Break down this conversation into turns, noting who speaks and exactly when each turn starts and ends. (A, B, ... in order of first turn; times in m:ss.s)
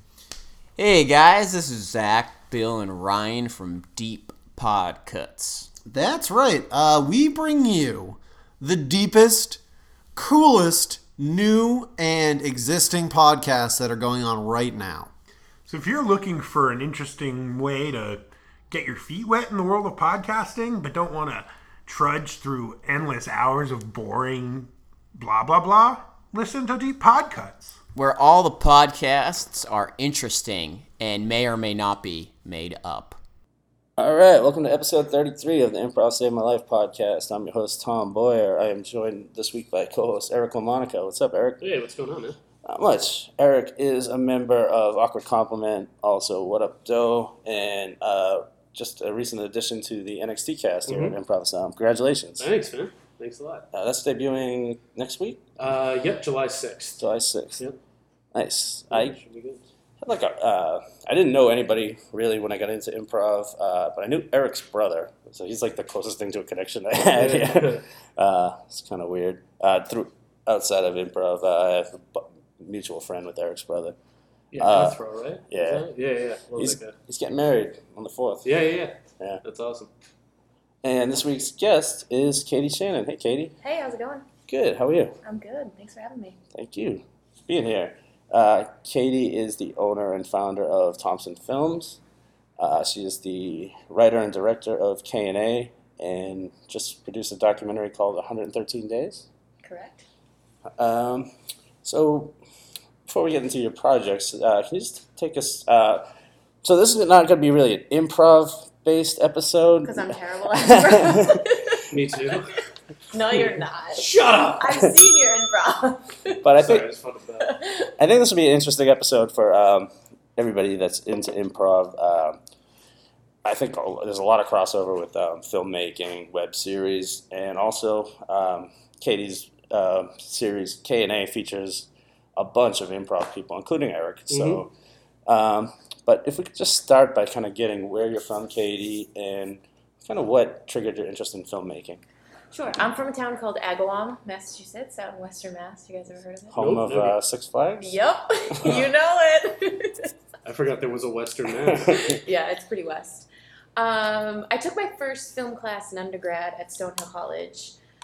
0:00.8-0:05.7 A
0:05.8-0:09.6 B
0:10.1-0:15.1 B
0:15.6-0:27.8 C
0:27.9-0:33.2 A
0:34.0-0:41.6 D
0:41.6-0:42.4 E
0:42.6-0:52.5 D
0:50.9-0:51.2 E
0:52.4-0:53.7 E
0:53.7-0:55.5 D
0:55.6-0:57.0 E
0:57.0-0:57.7 D
0:58.3-0:59.2 D
0:58.9-0:59.6 E
1:00.0-1:14.0 D
1:07.1-1:07.8 E
1:14.5-1:16.9 E
1:14.6-1:15.8 D
1:16.6-1:18.5 D
1:18.4-1:19.9 E
1:20.8-1:23.6 D
1:23.6-1:24.3 F
1:24.5-1:25.2 D
1:25.2-1:26.4 F
1:26.5-1:32.0 D
1:32.6-1:39.3 D
1:39.6-1:40.0 F
1:40.8-1:42.3 D
1:43.1-1:46.0 D
1:46.6-1:51.4 D
1:49.8-1:51.8 F
1:51.9-1:52.6 E
1:53.1-1:54.0 F
1:53.9-1:54.7 E
1:54.6-1:56.4 F
1:56.4-1:56.8 D
1:56.6-1:57.5 E
1:57.4-1:57.9 F
1:58.0-2:02.4 D
2:03.4-2:14.7 D
2:14.3-2:14.6 E
2:15.3-2:22.0 D
2:22.5-2:26.6 F
2:26.5-2:28.0 D
2:26.6-2:27.1 E
2:27.8-2:30.1 F
2:28.5-2:28.8 D
2:30.4-2:32.1 E
2:31.7-2:32.0 D
2:31.9-2:37.8 F